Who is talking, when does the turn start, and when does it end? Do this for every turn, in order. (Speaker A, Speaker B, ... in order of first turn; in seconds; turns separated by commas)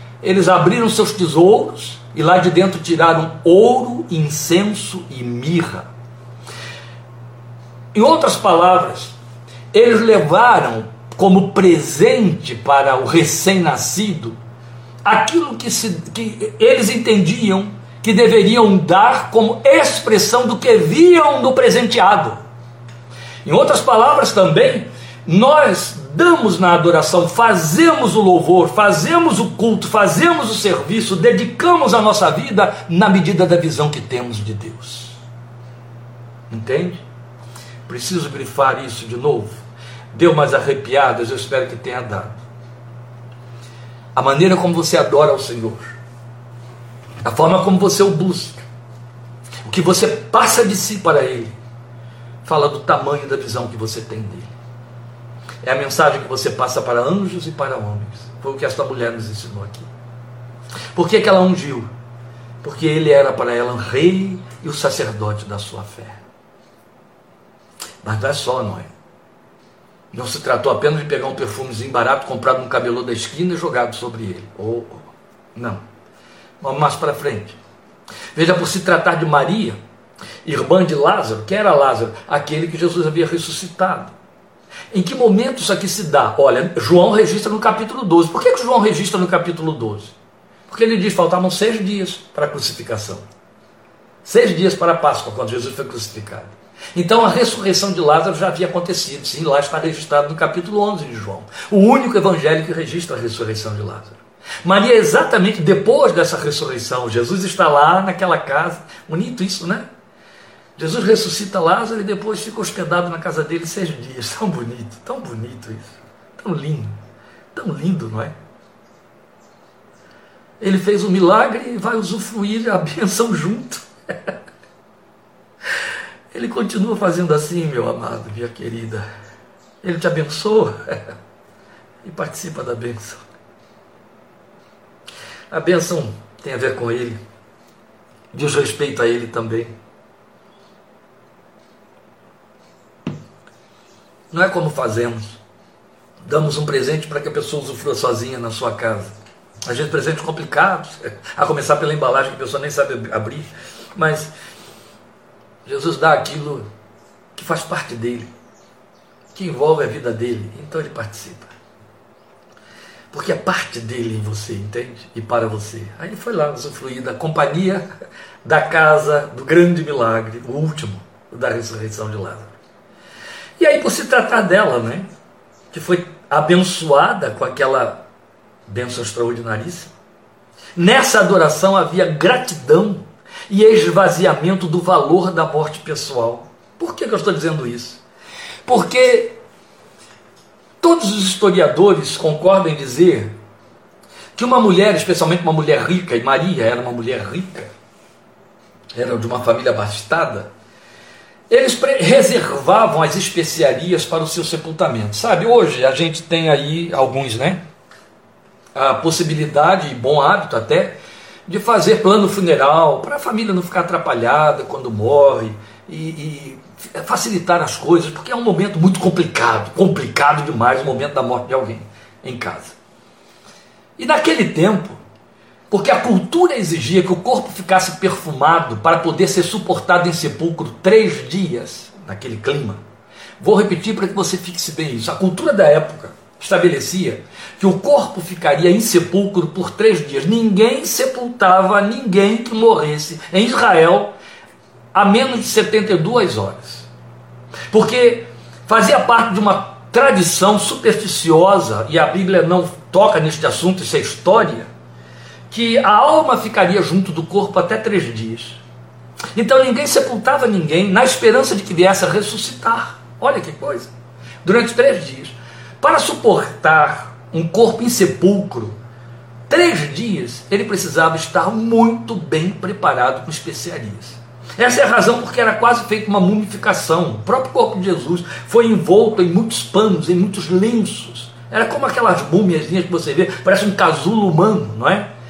Speaker A: 0.2-5.9, Speaker A: 7.9-9.2, Speaker A: 9.7-14.4, Speaker A: 15.0-22.4, Speaker A: 23.4-35.2, Speaker A: 36.5-37.0, Speaker A: 37.9-39.6, Speaker A: 40.1-42.4, Speaker A: 44.1-45.9, Speaker A: 47.2-48.6, Speaker A: 49.6-51.5, Speaker A: 52.4-54.5, Speaker A: 55.6-59.9, Speaker A: 61.0-61.9, Speaker A: 62.6-66.2, Speaker A: 68.0-68.9, Speaker A: 70.1-75.8, Speaker A: 76.6-77.6, Speaker A: 78.3-79.8, Speaker A: 80.5-84.1, Speaker A: 84.9-90.2, Speaker A: 90.7-93.2, Speaker A: 94.2-109.9, Speaker A: 110.8-117.0, Speaker A: 117.5-118.3, Speaker A: 120.6-124.3, Speaker A: 126.3-129.1, Speaker A: 129.8-131.1, Speaker A: 132.0-133.2, Speaker A: 135.5-137.2, Speaker A: 138.3-139.7, Speaker A: 144.3-145.4, Speaker A: 146.2-149.1, Speaker A: 149.7-154.3, Speaker A: 155.7-156.7, Speaker A: 157.3-158.3, Speaker A: 159.3-161.5, Speaker A: 163.1-167.8, Speaker A: 168.4-172.5, Speaker A: 173.6-175.1, Speaker A: 175.7-178.0, Speaker A: 178.7-179.9, Speaker A: 180.8-188.0, Speaker A: 188.7-189.4, Speaker A: 190.8-193.3, Speaker A: 194.3-197.7, Speaker A: 198.9-200.5, Speaker A: 201.5-207.6, Speaker A: 208.8-211.0, Speaker A: 211.5-222.8, Speaker A: 224.0-225.0, Speaker A: 225.7-232.8, Speaker A: 233.4-244.1, Speaker A: 244.9-246.9, Speaker A: 247.7-254.7, Speaker A: 255.5-258.6, Speaker A: 259.4-263.9, Speaker A: 264.4-268.8, Speaker A: 269.5-285.1